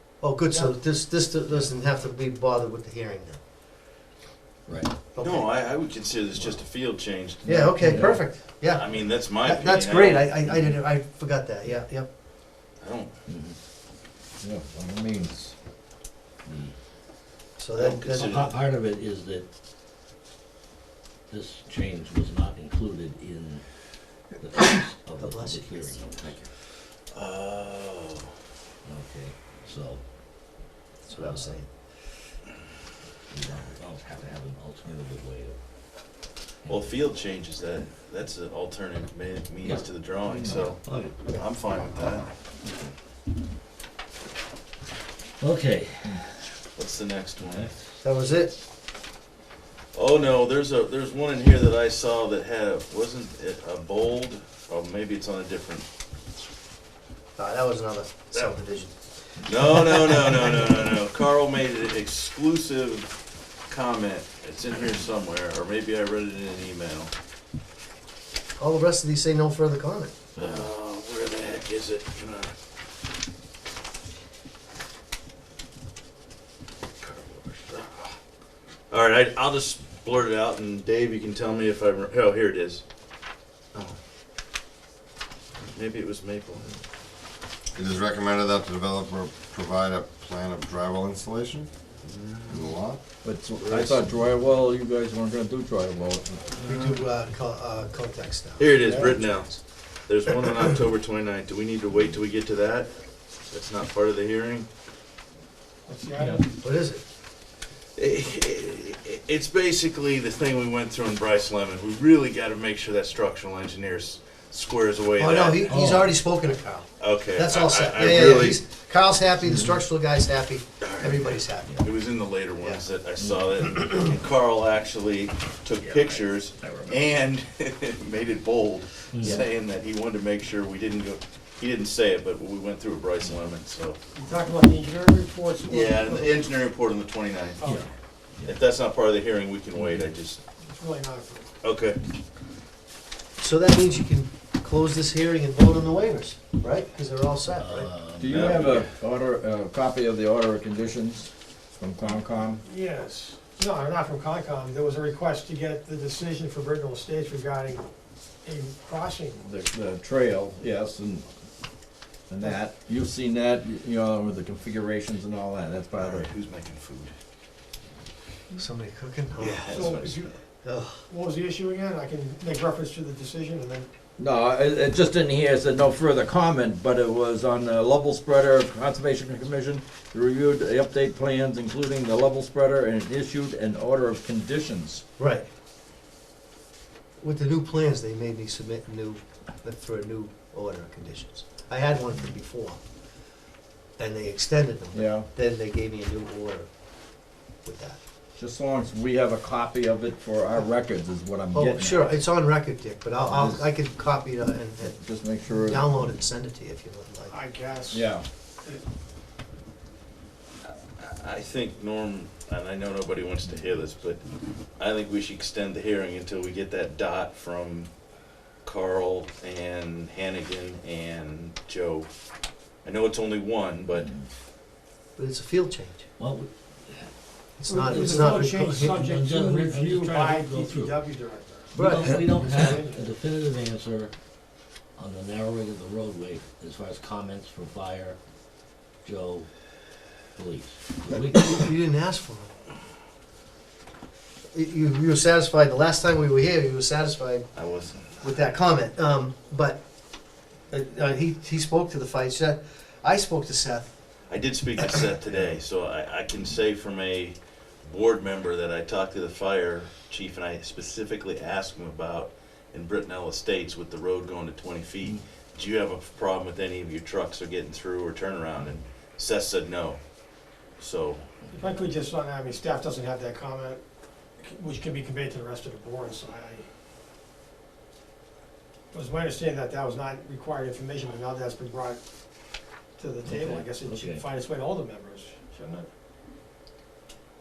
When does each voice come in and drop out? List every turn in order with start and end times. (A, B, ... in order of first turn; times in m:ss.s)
0:00.2-0:03.4 A
0:00.5-0:00.8 B
0:04.7-0:04.9 C
0:05.1-0:05.5 A
0:05.2-0:07.6 D
0:07.4-0:12.1 A
0:07.4-0:08.2 E
0:07.7-0:08.2 C
0:08.7-0:10.3 D
0:10.5-0:10.8 C
0:12.8-0:13.1 D
0:13.3-0:13.6 C
0:14.4-0:15.6 E
0:16.4-0:16.7 C
0:17.6-0:18.4 A
0:17.7-0:18.6 D
0:18.1-0:19.5 C
0:21.3-0:26.5 C
0:25.2-0:26.5 A
0:27.1-0:28.3 D
0:28.8-0:31.6 C
0:31.0-0:31.7 A
0:33.3-0:35.6 C
0:36.6-0:37.0 C
0:36.7-0:42.3 D
0:39.6-0:41.2 C
0:40.3-0:40.6 E
0:45.4-0:46.4 C
0:46.8-0:47.7 D
0:47.4-0:47.9 C
0:48.0-0:48.6 A
0:49.9-0:55.9 D
0:57.4-0:58.9 A
0:59.4-1:03.1 D
0:59.5-1:01.0 A
1:03.7-1:07.1 D
1:08.6-1:10.1 A
1:10.4-1:12.5 D
1:10.4-1:10.6 C
1:17.0-1:18.1 D
1:18.9-1:22.8 D
1:25.7-1:26.7 D
1:27.7-1:31.7 F
1:32.0-1:32.7 D
1:32.5-1:33.0 F
1:33.2-1:36.4 E
1:33.6-1:34.1 D
1:36.6-1:39.6 A
1:38.6-1:44.7 D
1:38.8-1:39.2 B
1:45.9-1:46.5 B
1:46.2-1:46.4 C
1:46.6-1:47.0 A
1:48.0-1:55.8 D
1:55.2-2:01.8 A
1:55.6-1:56.2 C
1:57.0-1:58.6 D
1:59.4-1:59.8 C
2:00.8-2:14.0 D
2:01.6-2:01.9 C
2:03.2-2:04.0 C
2:05.8-2:07.1 C
2:09.1-2:09.4 C
2:14.1-2:16.5 B
2:15.7-2:17.8 D
2:17.6-2:17.9 B
2:18.4-2:20.4 D
2:20.6-2:21.5 B
2:21.6-2:22.0 D
2:23.4-2:27.9 A
2:27.5-2:28.9 C
2:28.2-2:32.6 E
2:28.3-2:28.9 D
2:32.6-2:37.9 B
2:38.4-2:39.4 B
2:39.4-2:41.3 E
2:42.3-2:46.3 E
2:46.0-2:47.1 D
2:48.6-2:50.1 A
2:49.4-2:50.3 D
2:49.7-2:50.3 B
2:50.6-2:51.0 A
2:51.1-2:53.9 B
2:54.2-3:05.0 E
3:05.2-3:05.5 A
3:07.2-3:12.8 A
3:14.0-3:16.7 A
3:14.9-3:15.3 E
3:17.6-3:18.0 A
3:18.4-3:22.1 E
3:21.5-3:25.0 A
3:23.3-3:23.6 E
3:24.8-3:26.0 E
3:25.5-3:27.3 A
3:27.3-3:28.1 B
3:27.9-3:28.2 E
3:30.6-3:37.9 D
3:38.6-3:42.1 D
3:42.8-3:44.2 D
3:44.0-3:44.3 C
3:45.2-3:46.1 A
3:46.2-3:47.2 C
3:47.6-3:49.0 A
3:47.7-3:53.1 B
3:47.7-3:51.1 C
3:51.7-3:54.2 C
3:51.8-3:52.3 A
3:55.0-3:58.2 C
3:59.0-3:59.5 C
4:00.3-4:01.7 C
4:01.4-4:02.5 A
4:04.5-4:07.5 A
4:07.5-4:08.1 D
4:08.2-4:09.8 A
4:10.7-4:14.0 A
4:14.3-4:30.0 D
4:30.8-4:31.2 D
4:31.5-4:33.8 B
4:34.4-4:36.6 B
4:38.9-4:42.0 B
4:43.0-4:45.9 B
4:43.2-4:44.2 C